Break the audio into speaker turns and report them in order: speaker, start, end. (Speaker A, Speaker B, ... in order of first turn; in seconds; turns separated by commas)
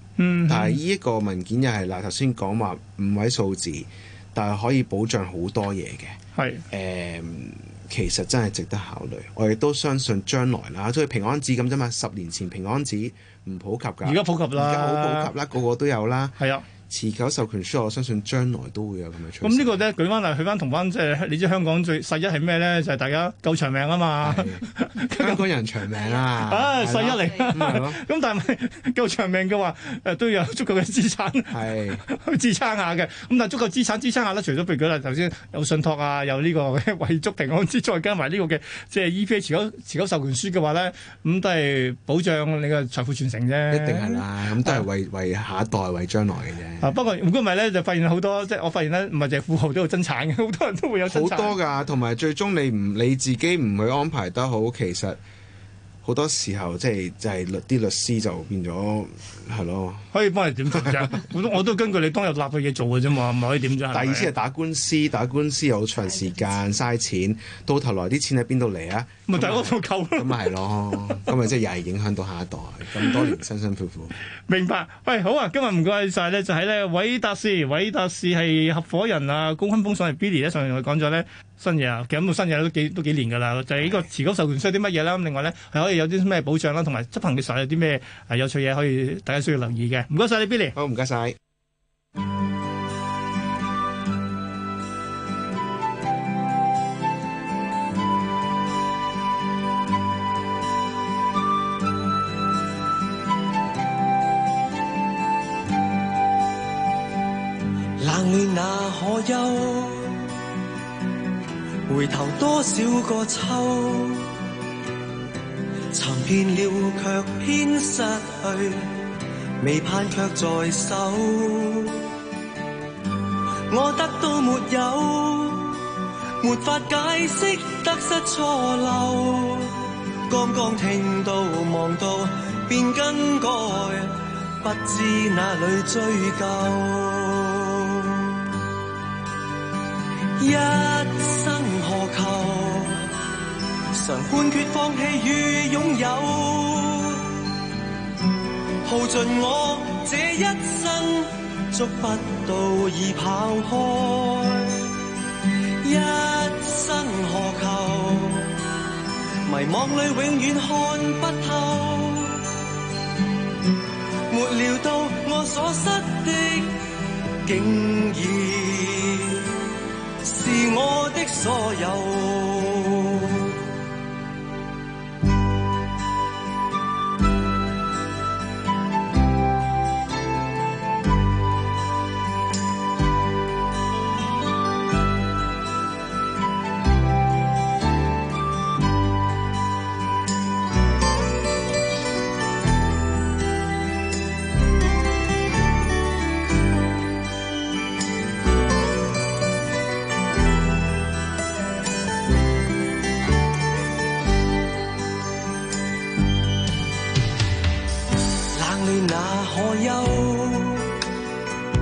Speaker A: 0.2-0.8, Speaker B: 0.5-6.2, Speaker A: 6.3-6.7, Speaker B: 6.7-19.8, Speaker A: 14.0-15.3, Speaker A: 16.4-16.6, Speaker A: 19.4-25.4, Speaker B: 24.2-28.0, Speaker A: 26.3-44.9, Speaker B: 31.5-32.0, Speaker B: 43.7-46.9, Speaker A: 46.8-51.5, Speaker B: 51.0-55.2, Speaker B: 56.0-60.1, Speaker A: 60.1-64.3, Speaker B: 63.9-74.1, Speaker A: 69.3-71.2, Speaker A: 73.0-73.3, Speaker A: 74.5-90.7, Speaker B: 90.7-91.3, Speaker C: 108.0-110.4, Speaker C: 111.9-114.4, Speaker C: 115.9-122.1, Speaker C: 123.7-138.5, Speaker C: 140.4-143.1, Speaker C: 143.9-147.5, Speaker C: 148.8-155.0, Speaker C: 155.8-158.6, Speaker C: 159.4-162.5, Speaker C: 164.3-166.9, Speaker C: 167.4-169.7, Speaker C: 170.2-173.6, Speaker C: 208.5-211.0